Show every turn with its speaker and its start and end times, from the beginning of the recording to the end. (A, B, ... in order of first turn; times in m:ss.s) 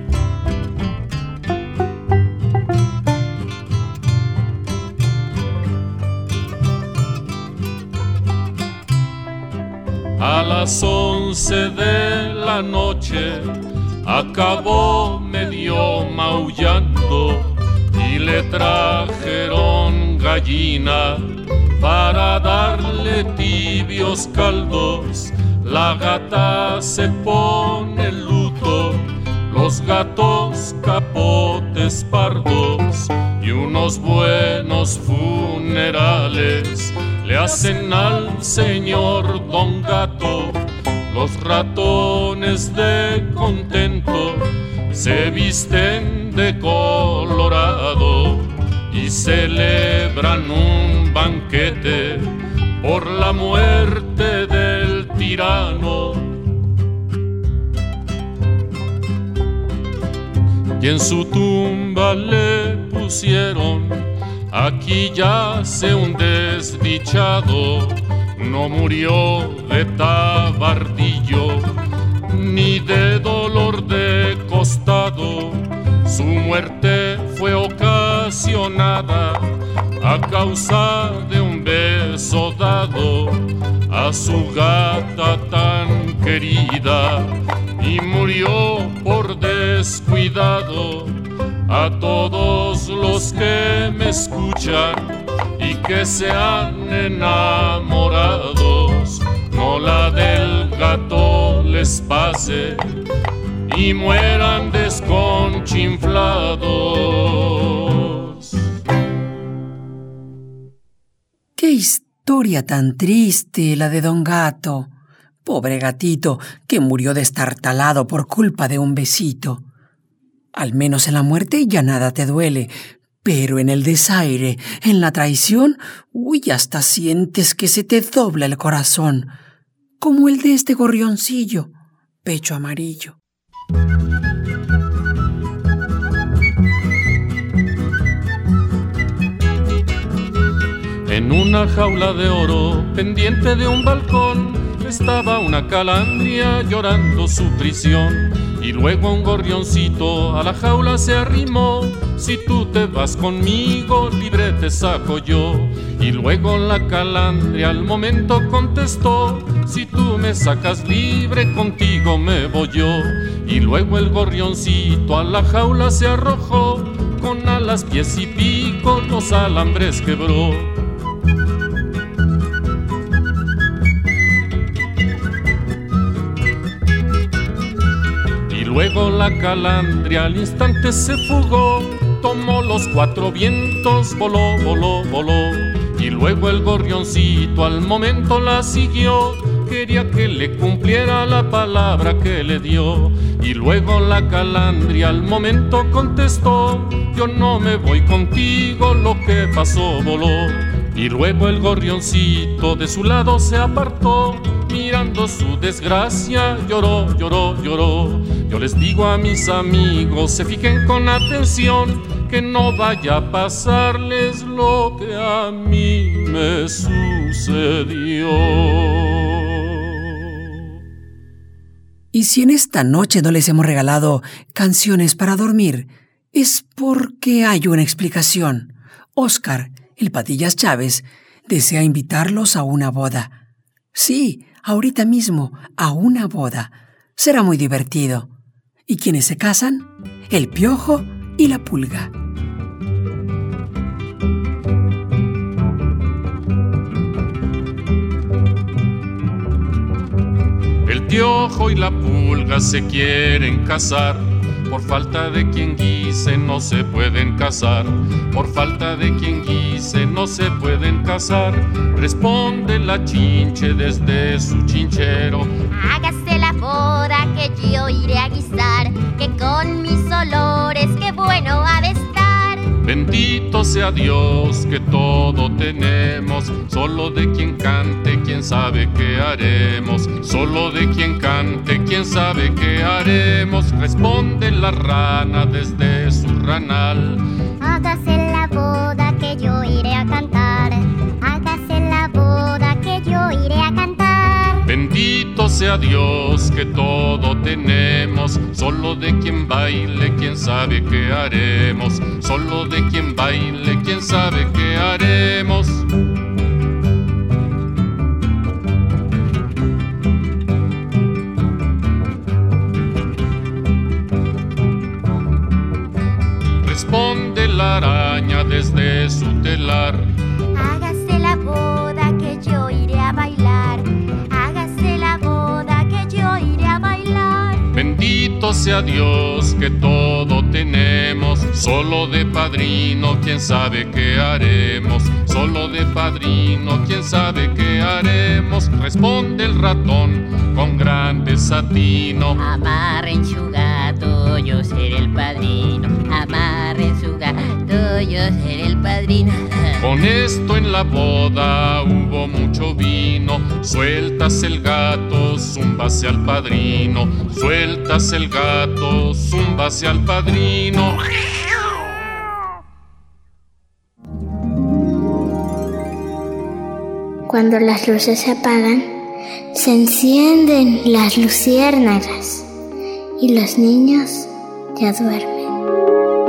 0:10.2-0:56.4 A
1:00.8-1:43.0 A
1:43.6-1:48.7 A
1:51.6-1:54.9 B
1:55.4-1:59.6 B
2:00.5-2:09.3 B
2:10.0-2:11.7 B
2:12.2-2:13.2 B
2:21.0-2:50.8 A
2:58.5-3:40.5 A
3:42.1-3:53.4 B
3:53.9-3:58.3 B
3:58.9-4:02.1 B
4:10.8-4:25.6 A
4:25.7-4:32.7 C
4:32.8-4:47.3 A
4:47.6-4:54.6 C
4:54.6-5:05.9 A
5:16.6-5:20.1 A
5:20.5-5:27.7 C
5:27.7-5:42.4 A
5:42.4-5:49.8 D
5:49.8-6:01.0 A
6:07.3-6:08.8 E
6:09.5-6:12.5 E
6:13.2-6:15.5 E